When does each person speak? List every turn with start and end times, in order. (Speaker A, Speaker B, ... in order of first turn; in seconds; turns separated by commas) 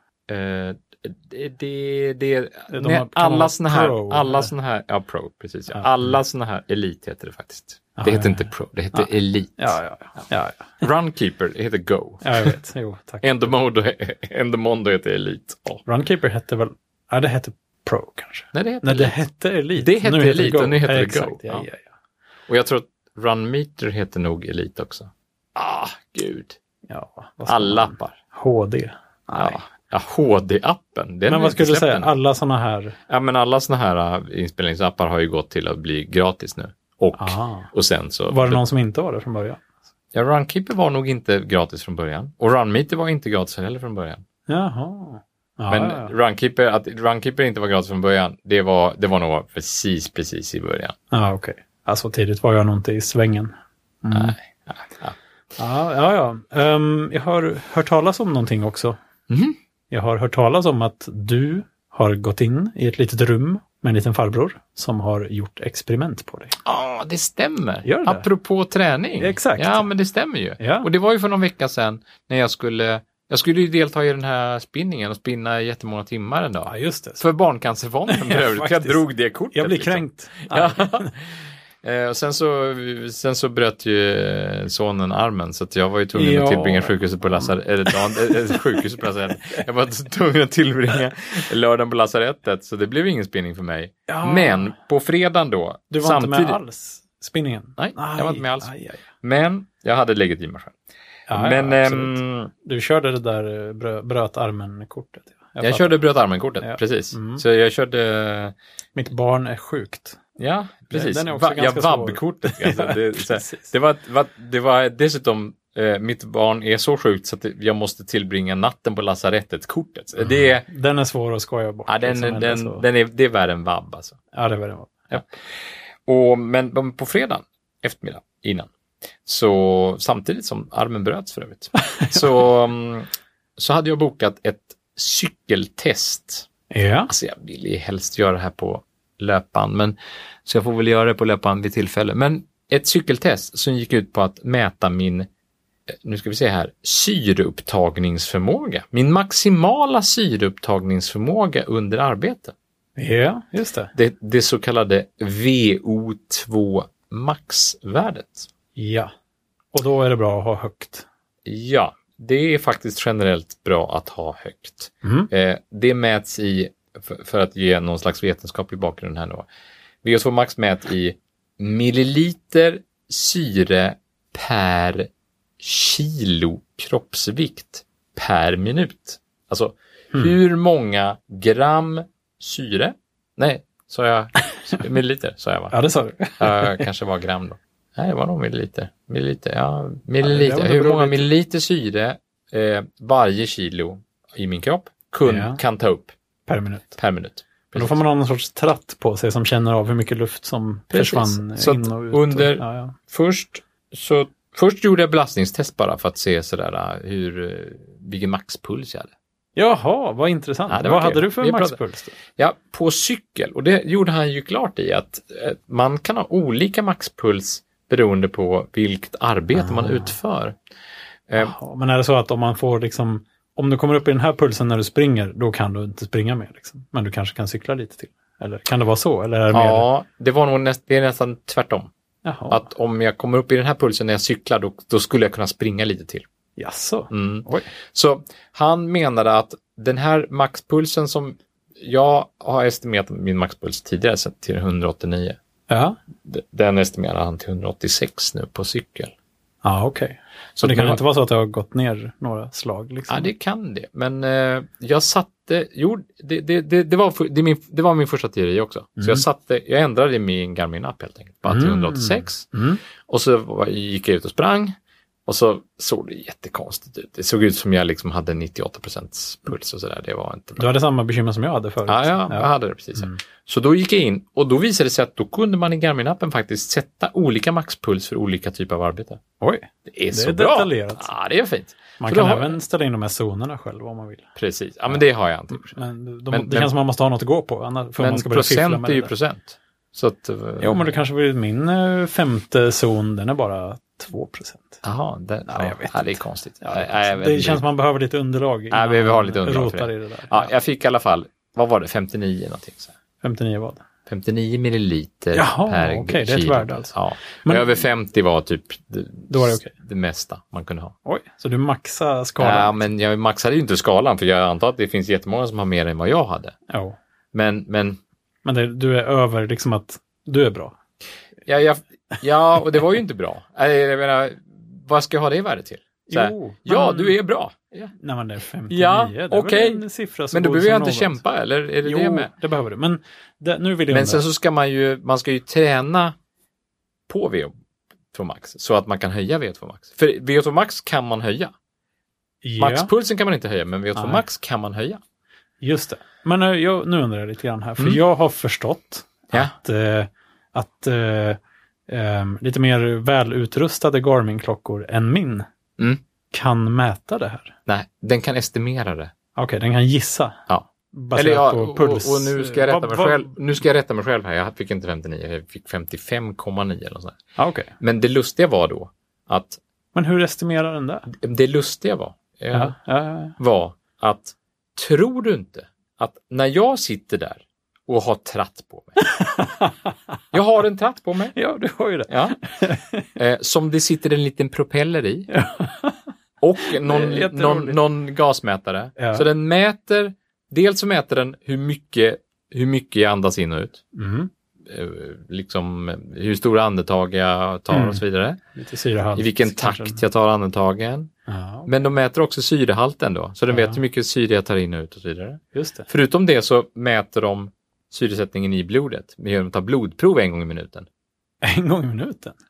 Speaker A: 0.3-9.8, Speaker B: 2.7-4.5, Speaker B: 8.0-10.8, Speaker A: 10.8-12.5, Speaker B: 12.2-13.3, Speaker A: 13.2-15.8, Speaker B: 15.9-21.9, Speaker A: 18.5-19.3, Speaker A: 19.8-21.7, Speaker A: 22.5-26.6, Speaker B: 26.9-29.6, Speaker A: 27.5-28.2, Speaker A: 29.4-32.1, Speaker B: 31.3-33.0, Speaker A: 33.1-38.6, Speaker B: 37.2-37.7, Speaker B: 38.3-39.6, Speaker A: 40.1-44.2, Speaker B: 44.5-46.1, Speaker A: 45.7-51.0, Speaker B: 51.1-54.4, Speaker A: 54.1-55.1, Speaker B: 55.6-59.0, Speaker A: 59.3-59.6, Speaker B: 59.9-66.6, Speaker A: 66.7-81.1, Speaker B: 67.8-68.3, Speaker B: 69.2-69.9, Speaker B: 70.6-70.9, Speaker B: 76.7-77.2, Speaker B: 78.1-79.0, Speaker B: 79.5-81.1, Speaker A: 81.8-96.6, Speaker B: 86.1-87.5, Speaker B: 88.1-88.8, Speaker B: 94.1-94.7, Speaker B: 95.9-99.0, Speaker A: 97.8-100.8, Speaker B: 101.3-106.0, Speaker A: 101.3-102.5, Speaker A: 105.6-108.5, Speaker B: 106.6-107.4, Speaker B: 109.0-110.2, Speaker A: 110.4-120.7, Speaker B: 110.9-113.7, Speaker B: 120.2-122.8, Speaker A: 121.9-124.2, Speaker B: 124.3-125.2, Speaker A: 126.1-128.7, Speaker A: 129.2-136.5, Speaker B: 131.8-132.2, Speaker B: 136.7-137.1, Speaker A: 137.1-145.3, Speaker A: 145.9-152.5, Speaker B: 153.0-153.9, Speaker A: 153.9-158.5, Speaker B: 158.8-159.1, Speaker B: 159.7-161.1, Speaker A: 161.5-169.5, Speaker B: 165.0-165.3, Speaker A: 170.0-175.1, Speaker A: 175.6-185.7, Speaker B: 185.7-186.8, Speaker A: 186.4-196.1, Speaker B: 190.2-191.3, Speaker B: 195.2-195.6, Speaker B: 196.5-197.0, Speaker A: 197.0-198.0, Speaker B: 197.7-203.0, Speaker A: 200.9-209.1, Speaker B: 209.6-212.2, Speaker A: 210.7-211.8, Speaker A: 212.4-220.6, Speaker B: 219.5-220.1, Speaker A: 221.3-221.6, Speaker B: 221.4-229.9, Speaker A: 229.5-231.9, Speaker B: 232.2-232.7, Speaker A: 232.5-236.3, Speaker B: 236.6-237.7, Speaker A: 237.1-245.4, Speaker B: 245.7-246.0, Speaker A: 246.2-249.1, Speaker B: 249.6-253.3, Speaker A: 250.6-251.0, Speaker A: 253.1-262.5, Speaker B: 259.0-259.2, Speaker B: 261.5-262.8, Speaker A: 263.1-270.6, Speaker B: 270.6-273.2, Speaker A: 271.9-279.2, Speaker B: 279.4-281.1, Speaker A: 279.9-282.5, Speaker B: 282.0-284.3, Speaker A: 284.4-286.7, Speaker B: 285.5-289.1, Speaker A: 288.0-290.9, Speaker B: 290.6-294.8, Speaker A: 294.8-297.6, Speaker B: 295.5-300.5, Speaker A: 298.7-302.9, Speaker B: 303.2-303.8, Speaker A: 304.1-310.9, Speaker B: 305.3-306.9, Speaker B: 307.4-307.8, Speaker B: 309.3-309.7, Speaker B: 311.1-312.9, Speaker A: 312.4-316.6, Speaker B: 316.7-317.0, Speaker A: 317.3-318.0, Speaker B: 318.4-320.8, Speaker A: 321.5-327.9, Speaker B: 326.1-327.2, Speaker B: 328.0-331.2, Speaker A: 328.7-332.3, Speaker B: 331.8-334.2, Speaker A: 333.9-336.1, Speaker A: 337.1-337.5, Speaker A: 338.1-341.5, Speaker B: 342.4-342.9, Speaker A: 342.6-345.0, Speaker B: 344.0-344.2, Speaker B: 345.6-355.5, Speaker B: 356.3-357.6, Speaker A: 357.7-359.1, Speaker B: 359.4-360.4, Speaker A: 360.5-367.2, Speaker B: 360.9-363.3, Speaker B: 367.4-367.7, Speaker A: 367.8-369.6, Speaker B: 369.9-371.1, Speaker A: 371.1-372.8, Speaker B: 372.5-373.4, Speaker A: 373.4-379.0, Speaker B: 379.0-380.0, Speaker A: 380.3-381.4, Speaker B: 381.3-383.1, Speaker A: 382.1-382.4, Speaker A: 383.2-385.3, Speaker B: 385.3-386.0, Speaker A: 386.4-393.8, Speaker B: 386.6-387.8, Speaker B: 389.0-389.3, Speaker B: 393.9-394.3, Speaker A: 394.6-398.4, Speaker B: 397.7-398.0, Speaker B: 398.6-400.0, Speaker A: 399.2-401.1, Speaker B: 401.3-401.8, Speaker A: 401.7-410.9, Speaker B: 403.5-403.8, Speaker B: 405.5-405.9, Speaker B: 411.4-412.4